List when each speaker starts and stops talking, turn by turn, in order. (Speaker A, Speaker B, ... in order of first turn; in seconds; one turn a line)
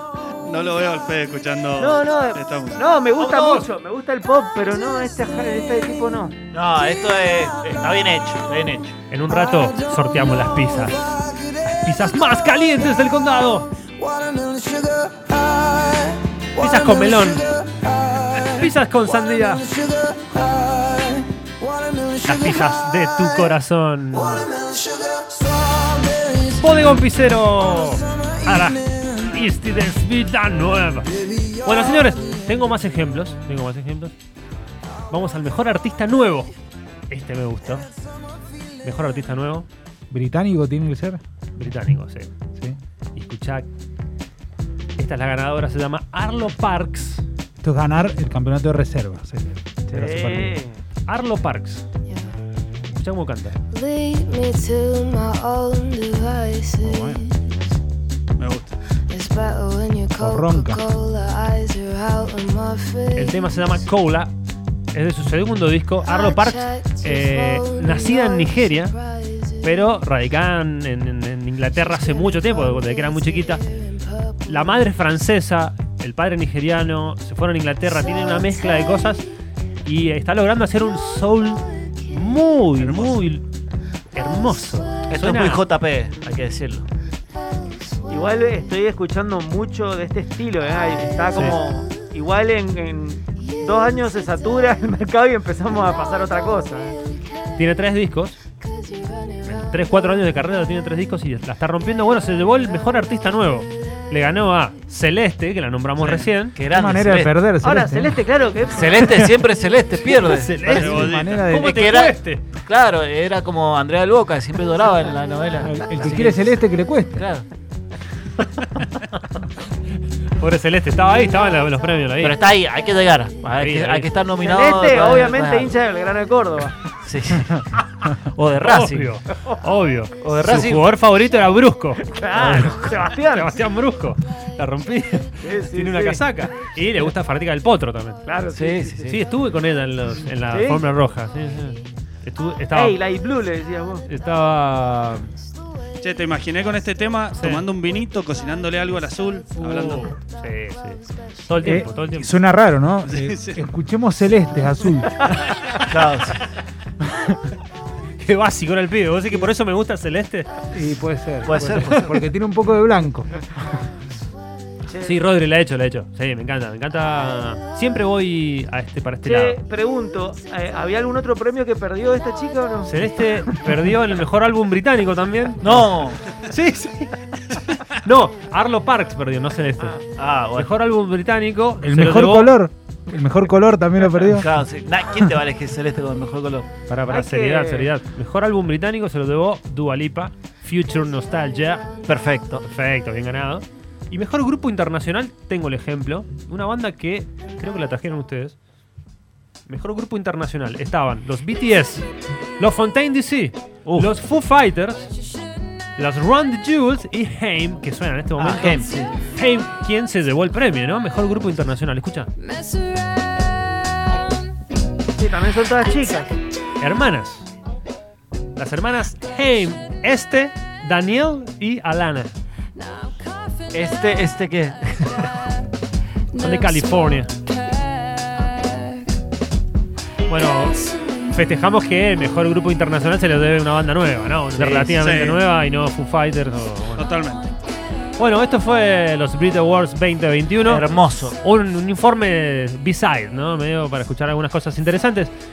Speaker A: 0.5-2.8
Speaker B: 1.8-6.3
Speaker C: 3.2-3.7
Speaker C: 6.5-8.9
Speaker D: 9.1-11.0
Speaker D: 11.7-13.7
Speaker E: 14.6-14.8
Speaker D: 16.6-17.5
Speaker D: 18.4-19.7
Speaker D: 22.2-24.5
Speaker D: 26.5-31.1
Speaker D: 31.6-34.1
Speaker D: 35.1-36.5
Speaker D: 37.1-37.9
Speaker D: 38.8-39.7
Speaker F: 40.1-41.2
Speaker D: 41.5-42.3
Speaker D: 43.1-43.7
Speaker D: 45.0-47.2
Speaker F: 47.6-50.6
Speaker B: 49.9-50.8
Speaker D: 51.1-51.8
Speaker D: 52.9-53.6
Speaker E: 53.7-56.9
Speaker F: 56.8-57.2
Speaker A: 58.4-58.8
Speaker E: 59.1-63.1
Speaker F: 60.1-60.9
Speaker D: 63.1-64.3
Speaker D: 64.9-69.0
Speaker D: 69.6-73.6
Speaker D: 74.4-79.2
Speaker D: 79.8-83.4
Speaker A: 82.8-83.2
Speaker D: 84.1-85.7
Speaker C: 85.1-86.8
Speaker B: 88.1-97.0
Speaker D: 97.5-98.4
Speaker D: 99.4-106.5
Speaker C: 106.4-107.4
Speaker F: 106.7-108.1
Speaker B: 107.6-109.2
Speaker C: 108.7-117.5
Speaker D: 110.0-112.4
Speaker A: 110.7-111.5
Speaker F: 110.7-111.9
Speaker F: 115.6-117.3
Speaker D: 120.4-122.4
Speaker C: 122.2-125.8
Speaker D: 123.5-124.1
Speaker B: 124.4-126.8
Speaker C: 127.0-129.1
Speaker D: 128.6-138.2
Speaker C: 130.2-130.9
Speaker B: 132.2-133.5
Speaker B: 135.4-136.2
Speaker B: 138.2-139.2
Speaker C: 138.5-139.2
Speaker D: 139.1-143.0
Speaker B: 140.5-140.8
Speaker B: 142.7-144.1
Speaker D: 144.1-145.3
Speaker A: 146.0-150.2
Speaker D: 147.3-147.7
Speaker D: 149.6-152.3
Speaker F: 151.6-155.3
Speaker A: 153.0-153.7
Speaker C: 155.9-156.4
Speaker D: 158.2-160.5
Speaker F: 160.7-163.3
Speaker C: 161.4-162.2
Speaker B: 164.9-165.2
Speaker D: 165.0-169.6
Speaker B: 169.2-173.5
Speaker D: 172.9-177.1
Speaker C: 175.6-176.2
Speaker D: 178.0-180.0
Speaker C: 180.2-180.7
Speaker D: 180.5-182.5
Speaker F: 181.8-184.5
Speaker C: 184.2-186.7
Speaker D: 186.9-191.9
Speaker B: 187.1-187.9
Speaker C: 192.1-192.6
Speaker D: 192.6-198.6
Speaker D: 199.7-202.1
Speaker D: 202.6-205.1
Speaker C: 203.8-204.1
Speaker D: 206.0-212.3
Speaker C: 208.4-209.1
Speaker B: 215.2-216.3
Speaker D: 216.8-217.5
Speaker D: 218.6-222.3
Speaker C: 223.7-225.3
Speaker D: 226.3-227.3
Speaker D: 230.3-237.1
Speaker C: 234.6-234.9
Speaker A: 234.9-235.4
Speaker A: 237.0-237.5
Speaker D: 238.2-245.3
Speaker C: 240.6-241.4